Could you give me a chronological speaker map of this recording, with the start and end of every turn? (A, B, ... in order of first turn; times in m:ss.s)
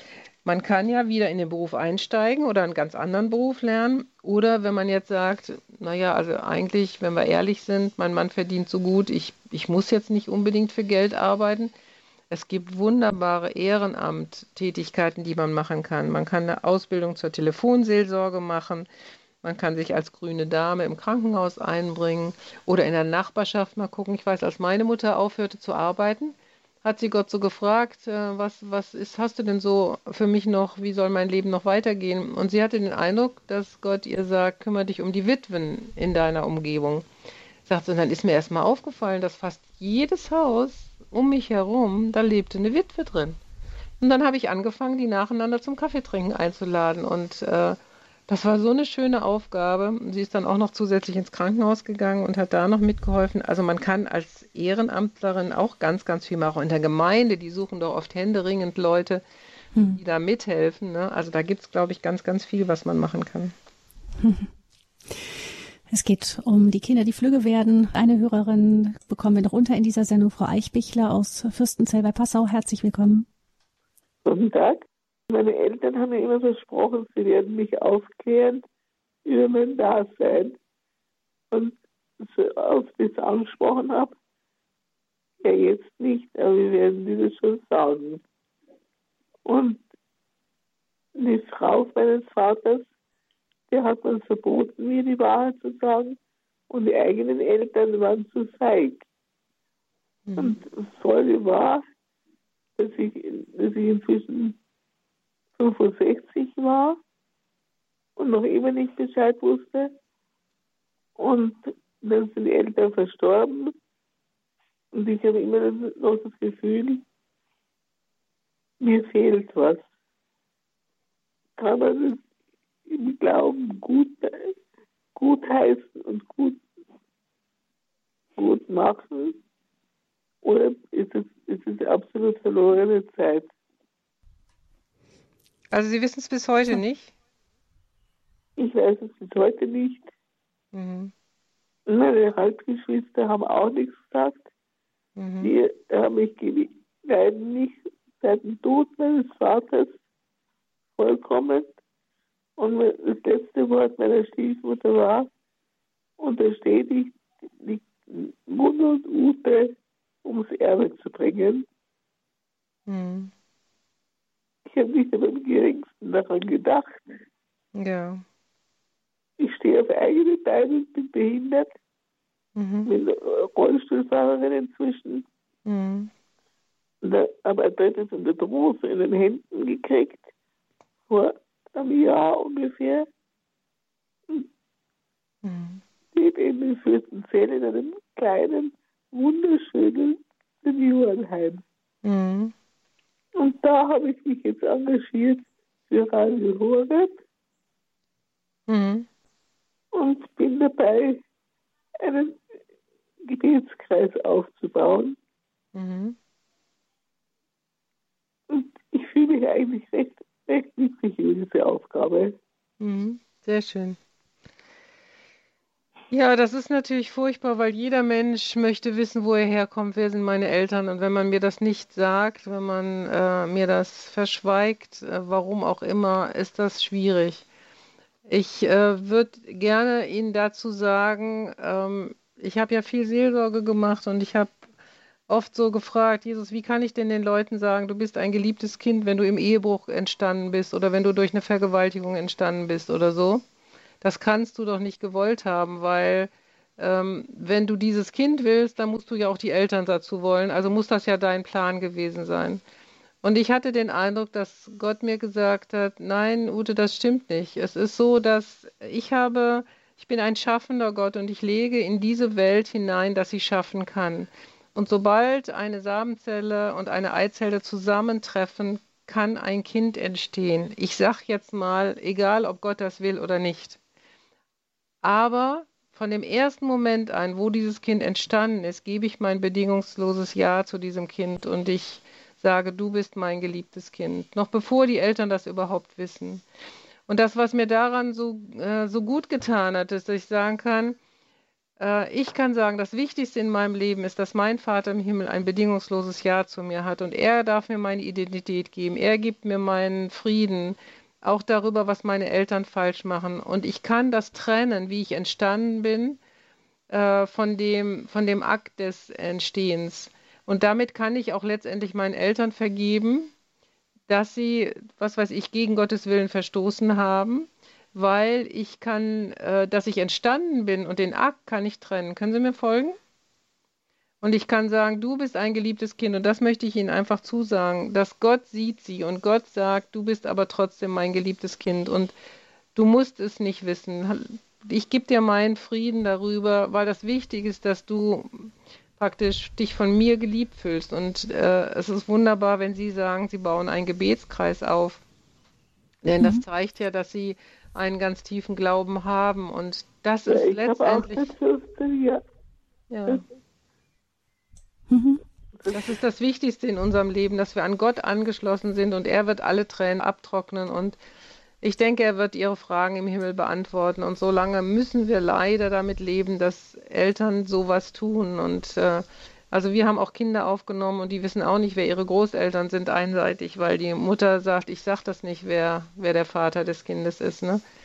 0:00.4-0:11.7 A
0:12.3-0:18.9 A
0:19.4-0:37.0 A
0:37.7-0:43.4 A
0:44.0-0:59.2 A
0:59.8-1:00.0 B
1:00.0-1:03.5 A
1:04.2-1:04.5 B
1:05.9-1:13.3 B
1:14.2-1:18.6 C
1:19.2-1:20.6 C
1:21.5-1:24.2 C
1:25.4-1:28.2 C
1:29.5-1:29.8 C
1:31.2-1:32.9 C
1:33.7-1:36.2 C
1:36.7-1:39.0 C
1:40.3-1:40.6 A
1:40.4-1:41.8 C
1:42.8-1:44.6 C
1:45.6-1:47.0 C
1:48.2-1:49.9 C
1:51.2-1:53.7 C
1:54.9-1:57.0 C
1:58.8-1:59.9 C
2:01.6-2:02.2 C
2:02.9-2:04.6 C
2:05.2-2:06.6 C
2:08.4-2:09.4 C
2:10.4-2:13.5 C
2:15.7-2:17.1 A
2:18.6-2:20.1 C
2:20.7-2:21.1 A
2:21.9-2:24.5 C
2:25.2-2:25.5 A
2:25.4-2:30.0 C
2:31.0-2:31.8 C
2:32.6-2:35.3 C
2:36.2-2:41.7 C
2:42.9-2:43.3 A
2:44.7-2:47.1 C
2:47.8-2:48.2 A
2:49.4-2:51.7 C
2:52.6-2:52.9 A
2:52.9-2:55.3 C
2:55.7-2:56.1 A
2:57.0-3:00.3 C
3:01.1-3:03.1 C
3:05.4-3:05.8 A
3:06.2-3:11.6 C
3:12.0-3:12.5 A
3:13.4-3:17.2 C
3:18.7-3:19.1 A
3:19.9-3:21.2 C
3:22.0-3:22.4 C
3:23.2-3:25.2 C
3:25.8-3:26.2 A
3:28.5-3:32.4 C
3:32.8-3:34.0 A
3:36.1-3:47.5 A
3:48.3-3:54.7 A
3:55.3-4:03.4 A
4:04.0-4:12.6 A
4:13.2-4:33.8 A
4:35.0-4:46.4 A
4:47.1-4:51.0 A
4:51.8-5:06.2 A
5:06.9-5:13.3 A
5:14.1-5:23.0 A
5:24.2-5:32.1 A
5:32.8-5:45.0 A
5:46.0-5:51.3 A
5:50.3-5:52.2 C
5:52.9-5:53.2 A
5:54.9-5:55.2 B
5:55.7-6:01.0 A
6:01.6-6:17.6 A